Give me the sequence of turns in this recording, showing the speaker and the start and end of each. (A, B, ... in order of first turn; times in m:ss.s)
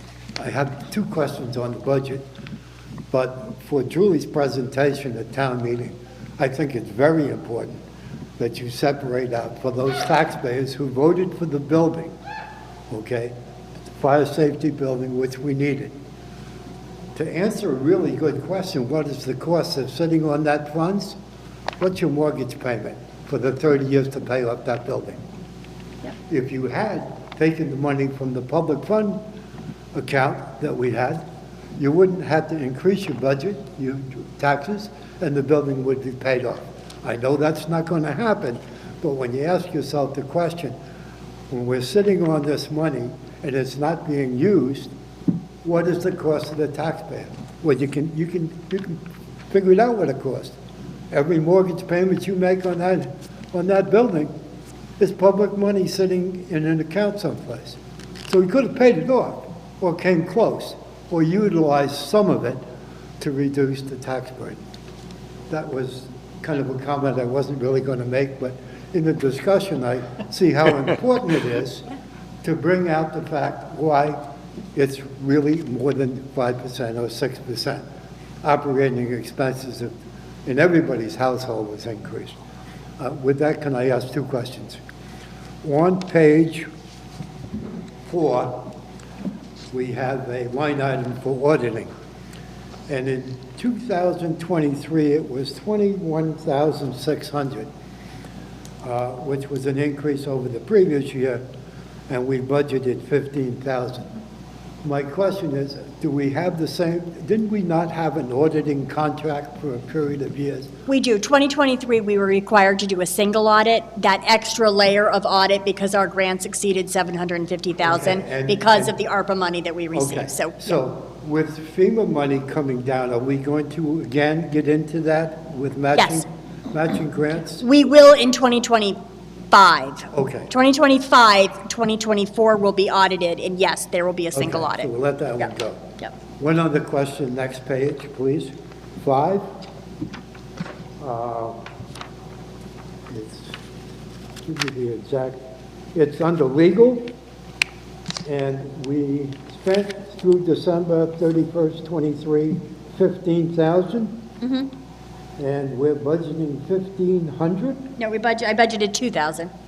0:00.4-0:02.3 A
0:03.1-0:07.8 A
0:08.4-0:12.1 A
0:12.9-0:13.4 A
0:14.0-0:16.0 A
0:17.2-0:21.2 A
0:21.8-0:25.2 A
0:26.3-0:29.2 A
0:29.9-0:31.2 A
0:31.8-0:40.7 A
0:41.5-0:44.9 A
0:45.6-0:50.6 A
0:51.1-0:54.3 A
0:55.0-1:02.6 A
1:03.2-1:04.6 A
1:05.5-1:11.9 A
1:12.4-1:14.2 A
1:14.7-1:17.9 A
1:18.4-1:19.9 A
1:20.5-1:22.4 A
1:23.0-1:24.8 A
1:25.6-1:26.7 A
1:28.1-1:28.7 A
1:29.7-1:31.9 A
1:32.9-1:37.7 A
1:38.8-1:41.4 A
1:42.1-1:44.1 A
1:44.8-1:50.7 A
1:50.9-2:00.8 B
1:57.8-1:58.9 A
1:59.9-2:07.6 A
2:06.0-2:06.2 B
2:07.6-2:09.0 B
2:09.5-2:15.5 B
2:10.1-2:10.5 A
2:14.3-2:15.8 A
2:16.4-2:19.4 A
2:21.0-2:21.6 A
2:23.1-2:23.5 A
2:24.5-2:25.4 A
2:25.9-2:27.1 A
2:28.2-2:34.2 A
2:34.4-2:34.7 B
2:35.4-2:37.9 A
2:38.0-2:39.5 B